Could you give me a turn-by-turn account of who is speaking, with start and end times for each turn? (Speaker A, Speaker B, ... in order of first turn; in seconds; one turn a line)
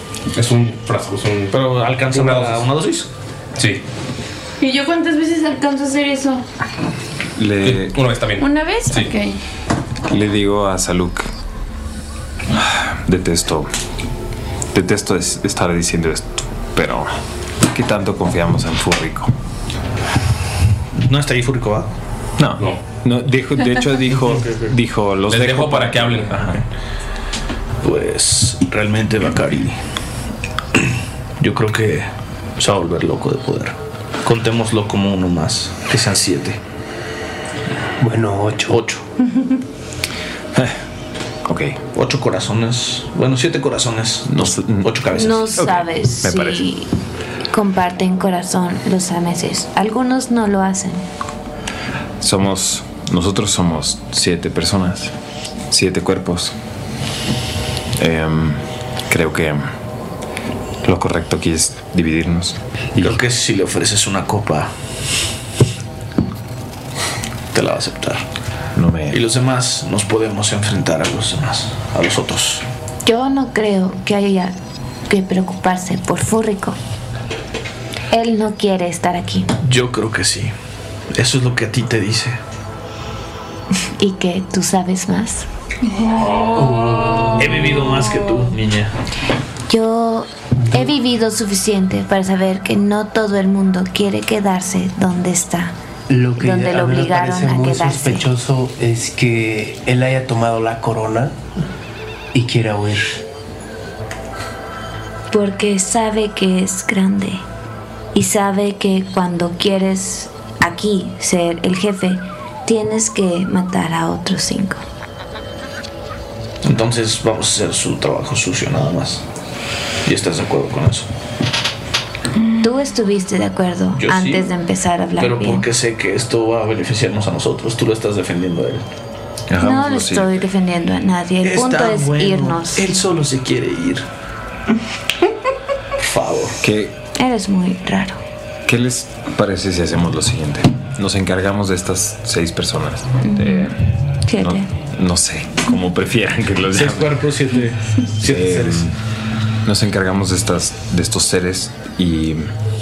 Speaker A: 0.3-2.7
Speaker B: 1.5-3.1
Speaker A: 3.6-3.8
Speaker C: 4.6-6.4
Speaker D: 7.4-7.9
Speaker A: 7.6-9.1
Speaker C: 8.4-9.4
Speaker D: 10.1-11.3
Speaker D: 12.5-13.7
Speaker D: 14.7-17.2
Speaker D: 17.7-19.3
Speaker B: 21.1-21.9
Speaker D: 22.4-26.6
Speaker B: 24.3-24.7
Speaker A: 25.3-26.5
Speaker B: 27.8-29.8
Speaker B: 31.4-36.6
Speaker E: 38.0-38.8
Speaker B: 38.7-39.0
Speaker D: 40.5-40.8
Speaker D: 41.5-41.8
Speaker B: 41.9-45.5
Speaker D: 44.3-45.0
Speaker F: 45.1-46.9
Speaker D: 45.6-46.6
Speaker F: 47.5-51.0
Speaker D: 52.2-55.1
Speaker D: 55.7-56.5
Speaker D: 58.0-59.7
Speaker D: 60.8-63.2
Speaker B: 63.0-64.7
Speaker B: 67.5-68.2
Speaker D: 68.8-69.2
Speaker B: 69.1-72.6
Speaker F: 73.0-74.5
Speaker F: 75.1-76.8
Speaker F: 78.1-79.5
Speaker B: 79.7-80.5
Speaker B: 81.1-82.4
Speaker F: 84.0-85.5
Speaker C: 86.0-86.8
Speaker A: 86.2-87.2
Speaker E: 86.5-87.7
Speaker B: 87.4-88.9
Speaker F: 89.7-95.7
Speaker E: 96.1-101.3
Speaker F: 96.4-98.3
Speaker E: 102.3-103.2
Speaker F: 105.3-107.4
Speaker F: 108.1-114.8
Speaker B: 116.6-119.2
Speaker B: 120.1-121.1
Speaker F: 122.6-125.7
Speaker B: 124.0-124.5
Speaker B: 125.2-128.8
Speaker D: 129.5-130.4
Speaker F: 129.6-132.9
Speaker B: 131.4-134.0
Speaker B: 136.0-136.6
Speaker D: 136.6-136.9
Speaker F: 137.2-138.2
Speaker D: 138.7-143.8
Speaker F: 143.3-143.7
Speaker F: 144.3-144.7
Speaker D: 144.4-147.3
Speaker B: 146.7-148.9
Speaker D: 148.2-148.9
Speaker D: 149.7-152.5